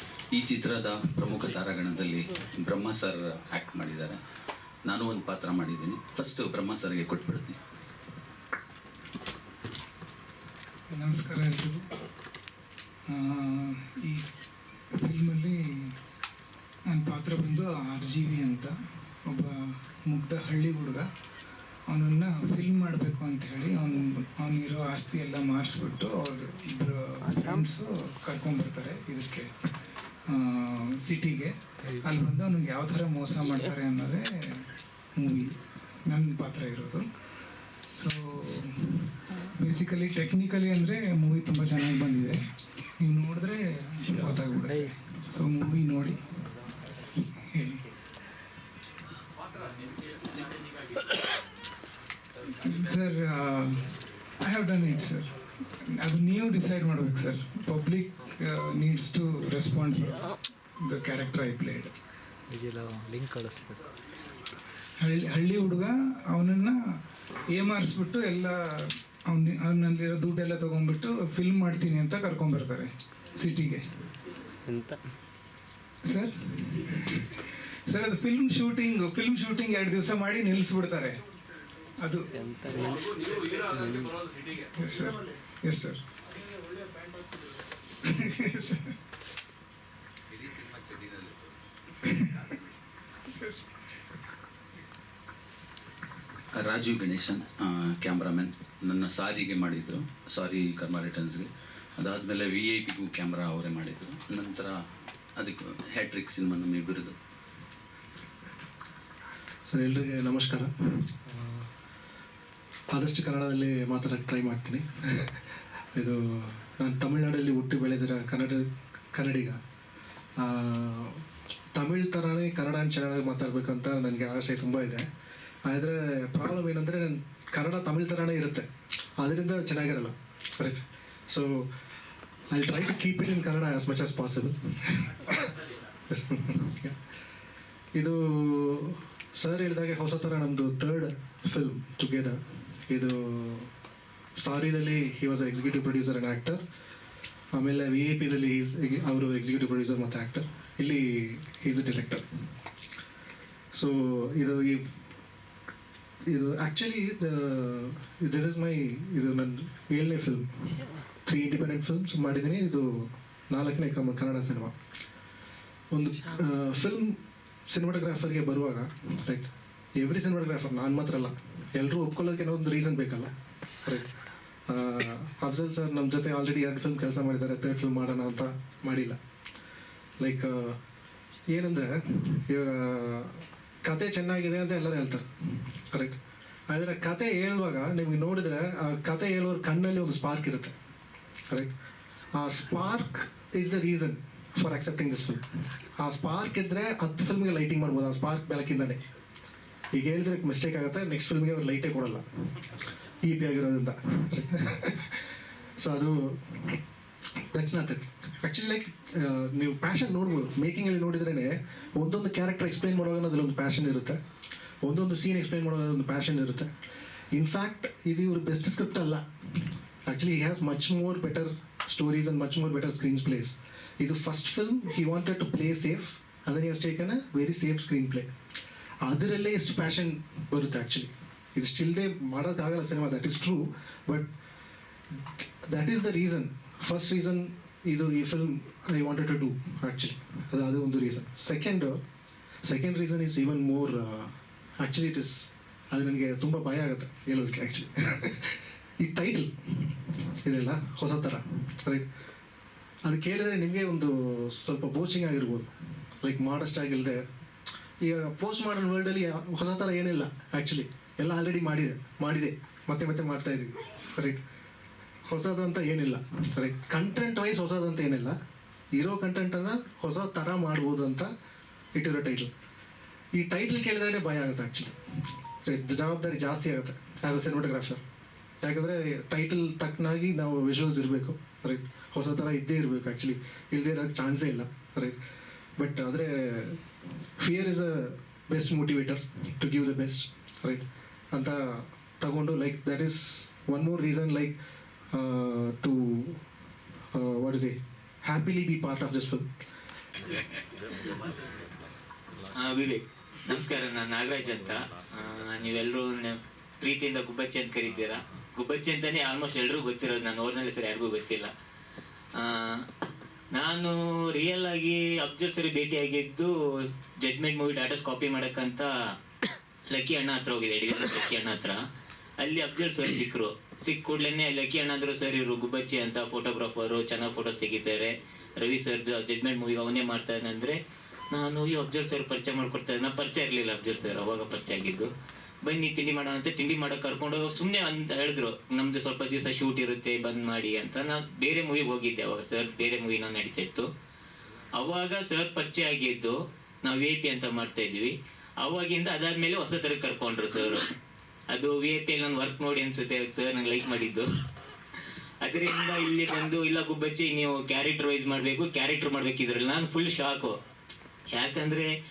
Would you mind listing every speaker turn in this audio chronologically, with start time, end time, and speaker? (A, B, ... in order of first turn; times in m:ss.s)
0:00.3-0:04.2 A
0:04.9-0:07.6 A
0:10.9-0:11.8 B
0:13.1-0:14.2 B
0:15.0-0:15.9 B
0:16.9-0:21.1 B
0:21.9-0:29.5 B
0:27.3-0:27.6 C
0:30.3-0:35.5 B
0:36.0-0:37.1 B
0:38.0-0:42.4 B
0:43.0-0:46.2 B
0:47.2-0:47.8 B
0:52.6-0:53.8 B
0:54.4-0:55.3 B
0:55.9-1:01.9 B
1:02.5-1:03.8 C
1:05.0-1:07.0 B
1:07.5-1:13.8 B
1:14.6-1:15.0 C
1:16.0-1:21.2 B
1:22.0-1:22.7 B
1:22.3-1:24.2 C
1:24.7-1:26.0 B
1:28.0-1:29.0 B
1:30.3-1:31.5 A
1:32.1-1:32.4 B
1:33.3-1:33.6 B
1:36.6-1:44.8 A
1:45.4-1:47.2 A
1:49.7-1:50.7 D
1:51.2-1:51.6 D
1:52.9-1:55.3 D
1:55.9-1:59.6 D
2:00.4-2:01.2 D
2:01.7-2:05.0 D
2:05.6-2:08.6 D
2:09.2-2:11.7 D
2:12.5-2:15.5 D
2:16.1-2:16.9 D
2:17.9-2:23.7 D
2:24.4-2:26.6 D
2:27.5-2:32.2 D
2:33.7-2:34.9 D
2:36.3-2:40.5 D
2:41.2-2:44.7 D
2:45.9-2:47.2 D
2:47.7-2:53.3 D
2:54.7-2:59.2 D
3:00.2-3:00.8 D
3:01.5-3:05.3 D
3:05.9-3:06.2 D
3:06.7-3:10.7 D
3:12.4-3:15.4 D
3:16.0-3:19.0 D
3:19.9-3:22.2 D
3:23.2-3:25.2 D
3:25.8-3:26.8 D
3:27.5-3:34.2 D
3:34.8-3:36.7 D
3:37.3-3:39.2 D
3:40.0-3:48.3 D
3:49.0-3:54.3 D
3:55.7-4:02.0 D
4:02.6-4:09.9 D
4:10.4-4:12.1 D
4:13.0-4:15.7 D
4:16.2-4:17.2 D
4:18.0-4:24.4 D
4:25.3-4:28.3 D
4:28.9-4:31.3 D
4:31.9-4:32.5 D
4:33.3-4:34.9 D
4:35.6-4:38.0 D
4:38.6-4:45.2 D
4:45.8-4:46.8 D
4:47.4-4:54.6 D
4:55.1-4:56.4 D
4:57.1-4:59.5 D
5:02.6-5:11.5 E
5:12.4-5:12.8 E
5:13.5-5:16.5 E
5:17.2-5:18.9 E
5:19.9-5:21.8 E
5:22.4-5:30.8 E
5:31.3-5:35.1 E
5:35.6-5:43.9 E
5:44.7-5:50.9 E
5:51.5-5:54.2 E
5:55.4-6:00.6 E
6:01.3-6:01.9 E